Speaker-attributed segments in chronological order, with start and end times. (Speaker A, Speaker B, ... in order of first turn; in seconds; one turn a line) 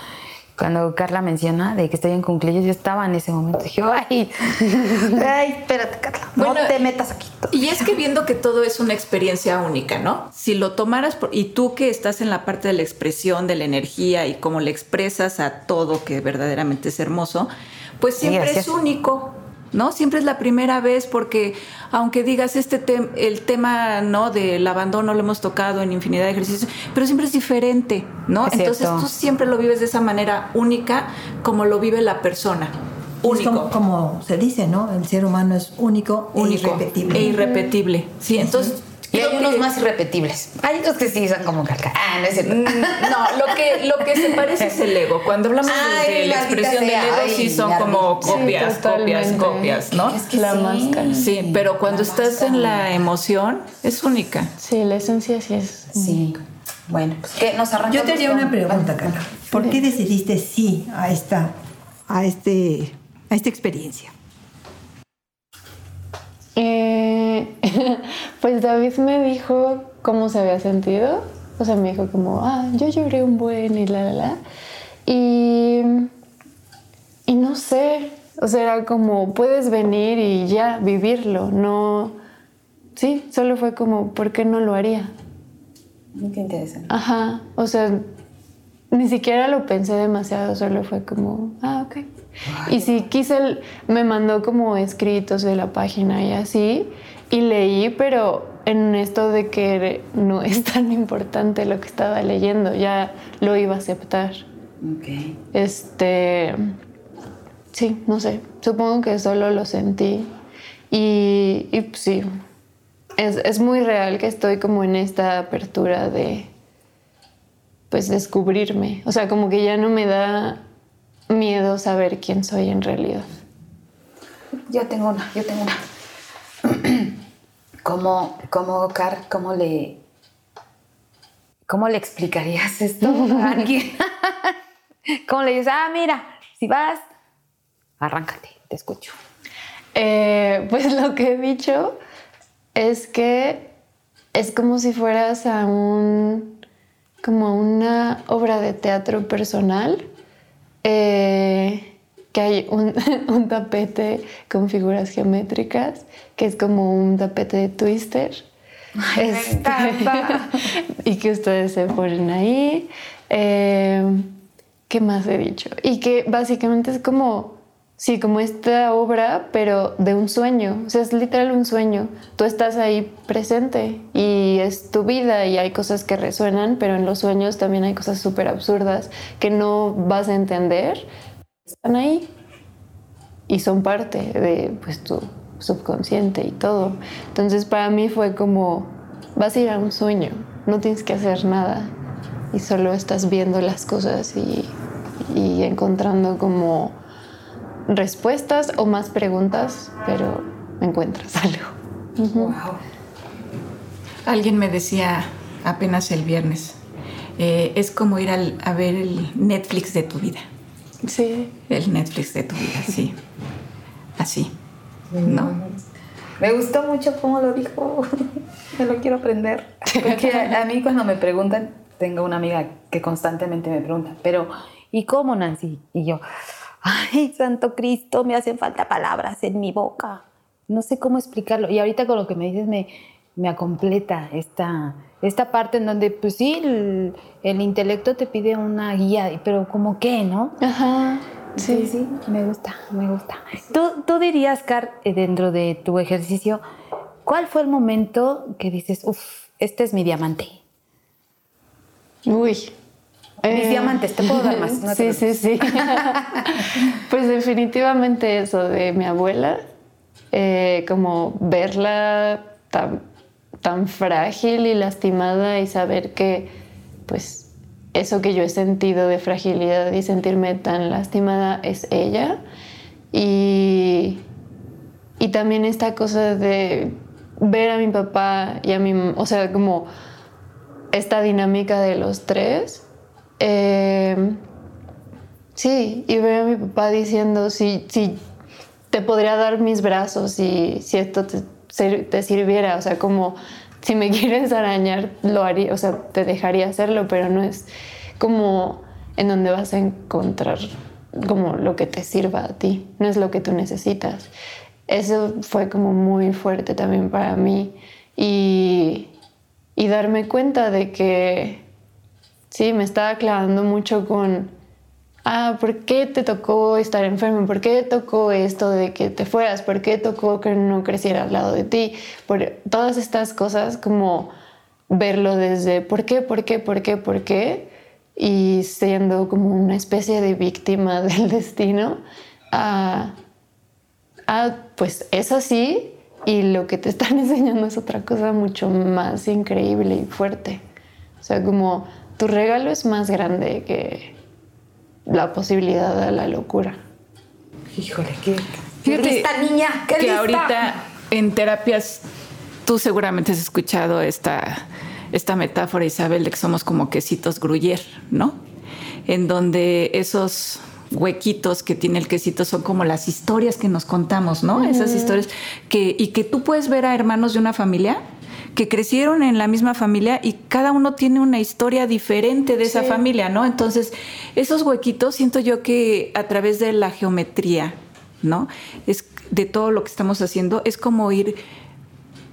Speaker A: 0.6-7.7
Speaker B: 6.4-6.8
Speaker B: 7.5-33.7
Speaker A: 18.2-18.8
Speaker A: 28.5-29.1
Speaker C: 33.3-37.3
Speaker B: 36.4-39.6
Speaker D: 37.2-37.7
Speaker A: 39.1-43.8
Speaker B: 42.5-50.2
Speaker A: 45.6-48.6
Speaker D: 48.2-51.3
Speaker A: 49.4-52.9
Speaker B: 51.2-54.5
Speaker D: 54.6-56.2
Speaker A: 55.9-59.3
Speaker C: 57.8-61.5
Speaker D: 59.5-59.8
Speaker C: 62.1-64.1
Speaker D: 66.6-74.4
Speaker D: 75.1-76.1
Speaker D: 77.3-82.2
Speaker D: 83.0-85.1
Speaker A: 86.2-86.9
Speaker D: 86.9-88.1
Speaker D: 88.9-92.1
Speaker A: 92.5-93.0
Speaker D: 92.7-104.5
Speaker A: 104.8-105.4
Speaker D: 105.5-106.7
Speaker D: 107.7-110.3
Speaker D: 110.9-112.3
Speaker D: 113.2-116.5
Speaker D: 117.9-120.6
Speaker D: 121.3-123.3
Speaker A: 124.7-125.8
Speaker A: 126.6-127.1
Speaker A: 127.8-130.0
Speaker A: 131.7-134.6
Speaker D: 133.0-133.7
Speaker A: 135.3-137.1
Speaker A: 138.0-139.2
Speaker D: 139.9-142.0
Speaker D: 142.8-143.7
Speaker D: 144.3-146.6
Speaker D: 147.2-150.1
Speaker D: 150.8-158.5
Speaker A: 159.0-160.7
Speaker D: 159.1-164.3
Speaker D: 164.9-181.1
Speaker D: 181.8-182.3
Speaker D: 183.5-191.9
Speaker D: 192.5-197.0
Speaker D: 197.9-202.6
Speaker A: 202.3-202.8
Speaker B: 204.3-206.8
Speaker B: 207.4-210.5
Speaker D: 211.0-211.5
Speaker B: 211.7-213.2
Speaker B: 214.2-214.5
Speaker A: 215.1-215.8
Speaker B: 215.2-215.6
Speaker A: 216.4-226.2
Speaker D: 219.9-220.6
Speaker A: 226.8-240.6
Speaker D: 240.6-241.9
Speaker A: 241.6-246.6
Speaker A: 247.2-250.6
Speaker D: 252.3-252.7
Speaker D: 253.4-259.6
Speaker A: 253.5-256.6
Speaker D: 260.3-263.0
Speaker D: 263.6-266.5
Speaker D: 267.1-272.4
Speaker D: 273.1-274.2
Speaker D: 275.2-279.9
Speaker D: 280.9-282.9
Speaker D: 283.4-284.4
Speaker D: 285.6-288.2
Speaker D: 288.9-297.7
Speaker D: 298.2-304.3
Speaker D: 304.9-309.1
Speaker D: 309.8-311.6
Speaker D: 312.5-314.5
Speaker D: 315.2-324.3
Speaker D: 324.9-332.0
Speaker D: 332.5-333.2
Speaker D: 334.3-340.6
Speaker D: 341.2-344.1
Speaker D: 345.1-346.8
Speaker A: 347.7-350.6
Speaker B: 348.9-349.3
Speaker B: 350.0-352.1
Speaker B: 352.6-358.4
Speaker B: 359.1-368.0
Speaker D: 364.6-365.2
Speaker B: 368.6-381.4
Speaker D: 372.6-373.0